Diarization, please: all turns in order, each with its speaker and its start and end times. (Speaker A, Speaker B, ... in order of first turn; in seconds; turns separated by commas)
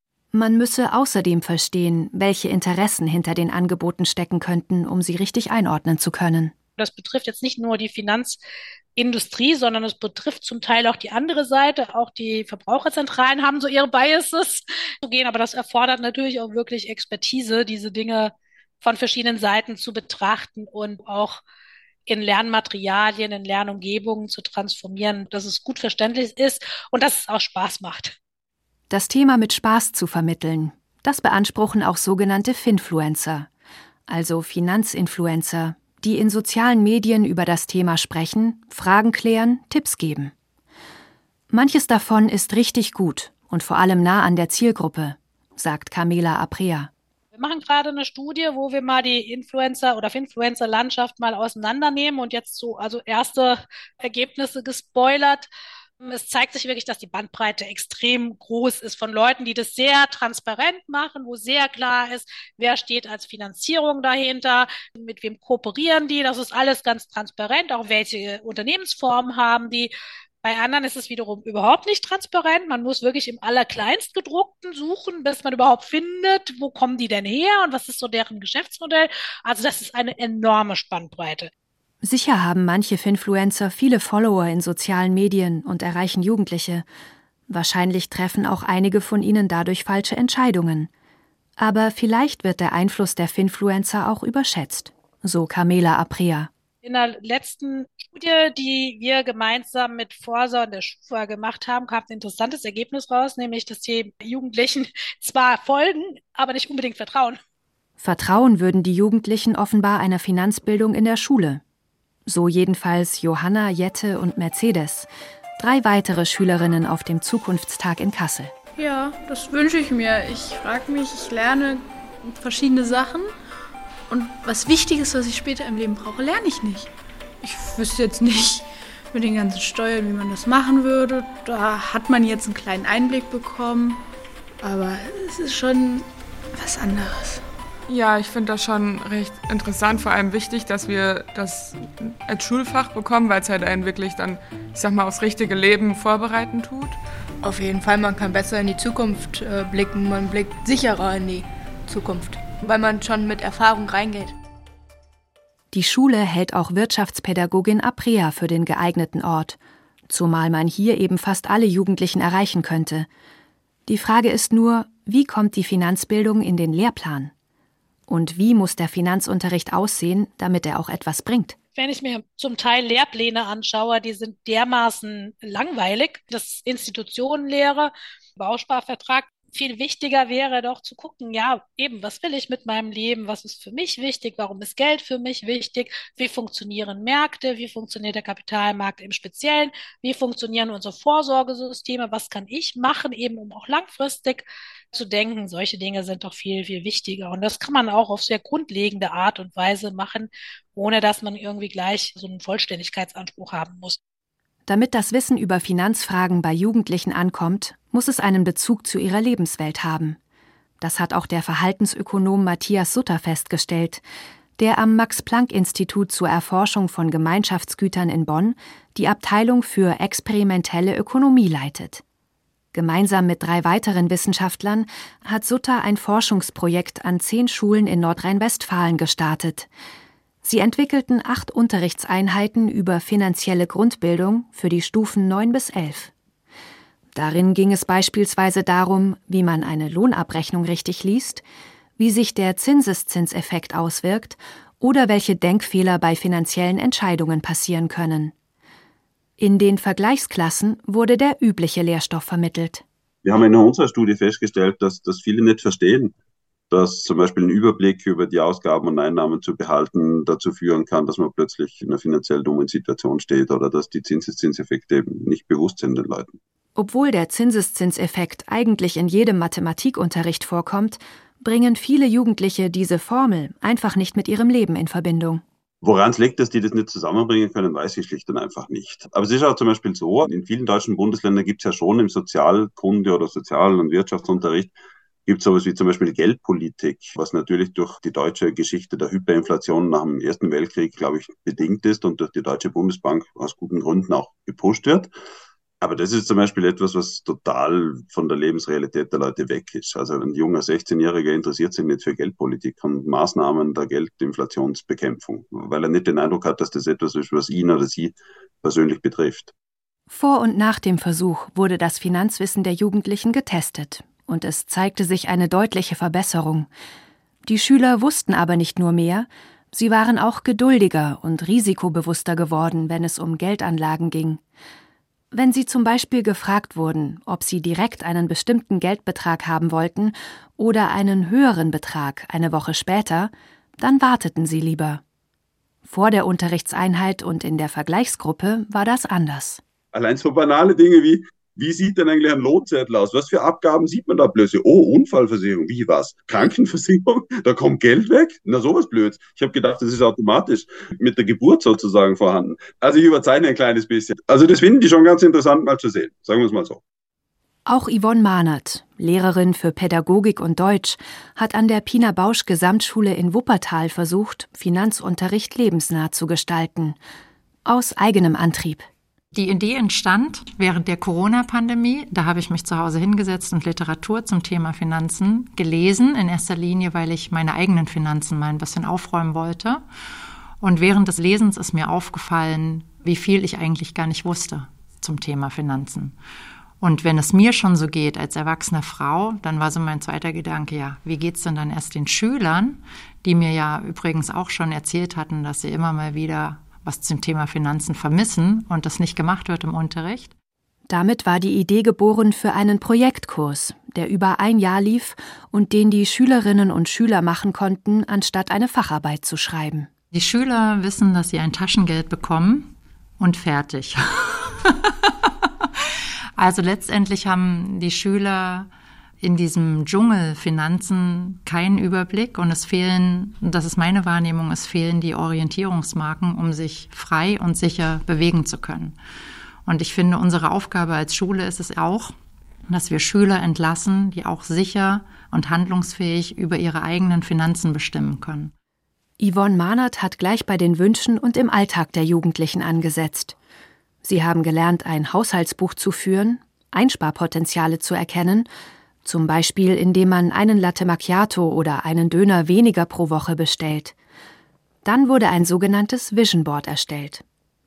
Speaker A: 0.3-6.5, Speaker B: 6.8-8.4, Speaker B: 9.0-21.4, Speaker B: 22.1-28.2, Speaker A: 28.9-33.5, Speaker A: 34.1-40.3, Speaker A: 41.5-46.9, Speaker B: 47.3-55.5, Speaker B: 56.0-81.5, Speaker A: 82.0-86.8, Speaker A: 87.5-90.9, Speaker A: 91.6-96.5, Speaker B: 96.8-107.4, Speaker A: 108.0-111.6, Speaker A: 112.3-118.5, Speaker C: 118.8-123.3, Speaker C: 124.1-126.9, Speaker C: 127.4-134.0, Speaker C: 134.6-137.4, Speaker D: 137.9-147.0, Speaker E: 147.4-154.3, Speaker A: 155.7-159.6, Speaker A: 160.1-163.1, Speaker A: 163.9-167.3, Speaker A: 168.1-171.6, Speaker B: 171.8-204.0, Speaker A: 204.7-210.2, Speaker A: 210.8-214.0, Speaker A: 214.6-222.0, Speaker A: 222.7-229.7, Speaker A: 230.4-236.1, Speaker A: 237.2-241.4, Speaker A: 242.0-248.3, Speaker A: 249.4-252.8, Speaker F: 253.2-256.1, Speaker F: 256.7-266.4, Speaker A: 266.8-275.4, Speaker F: 275.8-284.7, Speaker F: 285.3-295.1, Speaker F: 295.8-309.5, Speaker A: 310.1-316.7, Speaker A: 317.5-324.4, Speaker A: 325.3-335.0, Speaker A: 335.9-339.6, Speaker F: 339.9-356.8, Speaker A: 357.7-367.0, Speaker A: 367.7-368.9, Speaker G: 369.3-379.8, Speaker G: 380.6-386.1, Speaker G: 386.8-400.3, Speaker A: 400.9-409.9, Speaker G: 410.1-415.7, Speaker G: 416.4-418.7, Speaker G: 419.2-429.0, Speaker G: 429.6-432.1, Speaker G: 432.7-438.5, Speaker A: 439.2-443.4, Speaker A: 444.0-448.5, Speaker A: 449.1-453.9, Speaker A: 454.8-457.2